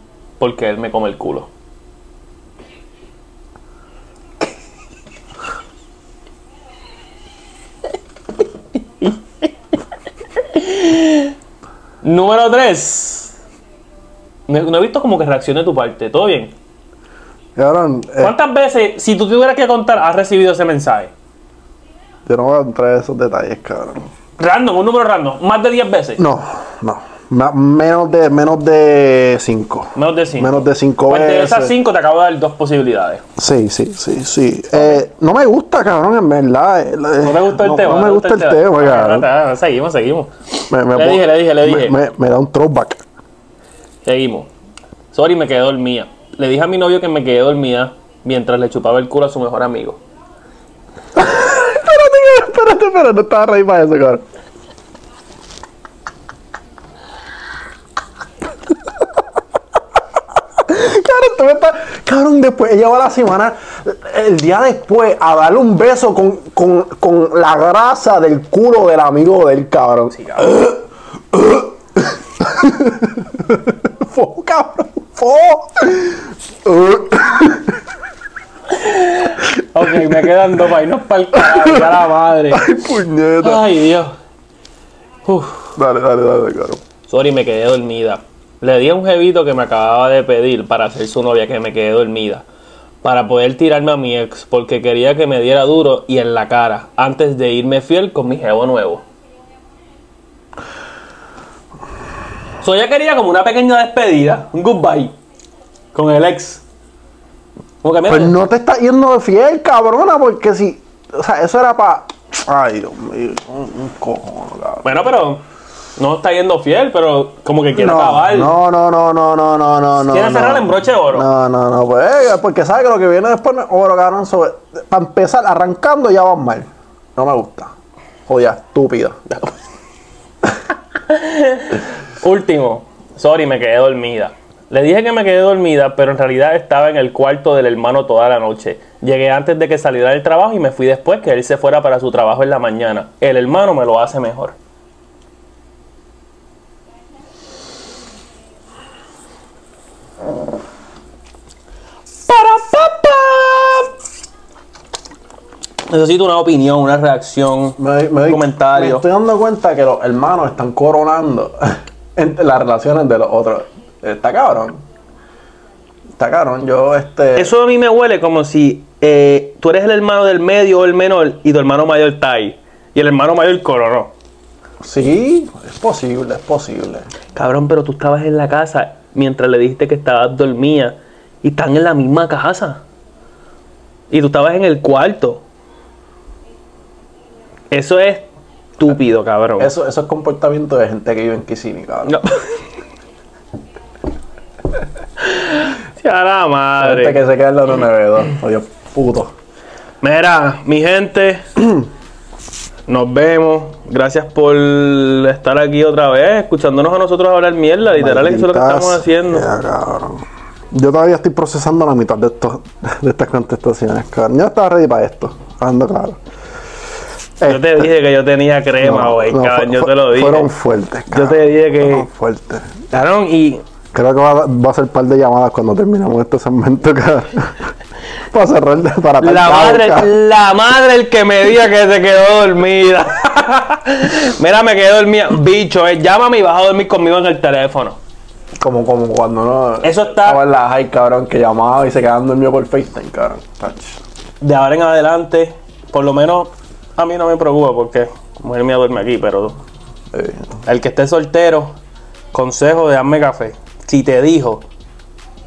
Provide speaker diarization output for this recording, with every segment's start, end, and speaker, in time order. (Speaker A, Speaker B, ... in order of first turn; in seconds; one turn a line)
Speaker A: 0.4-1.5
Speaker A: 10.4-11.3
Speaker A: 12.0-13.3
Speaker A: 14.5-16.5
Speaker B: 17.6-18.4
Speaker A: 18.2-21.1
Speaker B: 22.3-24.1
Speaker A: 24.4-26.2
Speaker B: 26.2-31.8
Speaker A: 29.9-33.2
Speaker B: 33.4-39.3
Speaker A: 34.8-35.0
Speaker A: 37.2-42.0
Speaker B: 40.7-43.0
Speaker A: 44.0-44.5
Speaker A: 45.1-50.0
Speaker B: 51.1-54.2
Speaker B: 60.6-77.8
Speaker A: 70.1-70.6
Speaker A: 78.7-82.8
Speaker B: 81.4-82.0
Speaker B: 82.5-83.7
Speaker A: 83.4-84.2
Speaker A: 85.3-85.7
Speaker B: 85.8-86.8
Speaker A: 87.1-92.5
Speaker A: 93.0-99.0
Speaker A: 102.6-105.1
Speaker A: 105.9-106.6
Speaker A: 107.8-108.4
Speaker B: 108.1-114.9
Speaker A: 114.8-115.4
Speaker A: 116.0-118.5
Speaker B: 117.8-127.7
Speaker A: 120.0-121.3
Speaker B: 128.3-129.2
Speaker A: 129.3-129.6
Speaker A: 131.1-144.6
Speaker A: 152.3-153.9
Speaker A: 155.9-159.1
Speaker B: 157.8-164.8
Speaker B: 166.2-167.5
Speaker A: 167.3-174.1
Speaker B: 174.8-177.1
Speaker A: 177.3-182.8
Speaker A: 184.1-185.4
Speaker A: 187.7-189.7
Speaker B: 189.6-192.2
Speaker A: 192.1-192.5
Speaker A: 195.2-197.2
Speaker B: 196.8-199.3
Speaker A: 200.0-201.5
Speaker A: 202.9-209.5
Speaker B: 207.9-216.2
Speaker B: 217.4-217.9
Speaker A: 217.4-220.5
Speaker B: 218.8-222.9
Speaker A: 221.1-222.1
Speaker A: 222.9-223.6
Speaker B: 223.9-227.7
Speaker B: 228.3-230.1
Speaker A: 229.2-238.0
Speaker B: 238.6-244.0
Speaker A: 239.8-240.4
Speaker A: 244.4-249.6
Speaker B: 250.1-250.5
Speaker A: 250.6-251.8
Speaker A: 252.3-254.7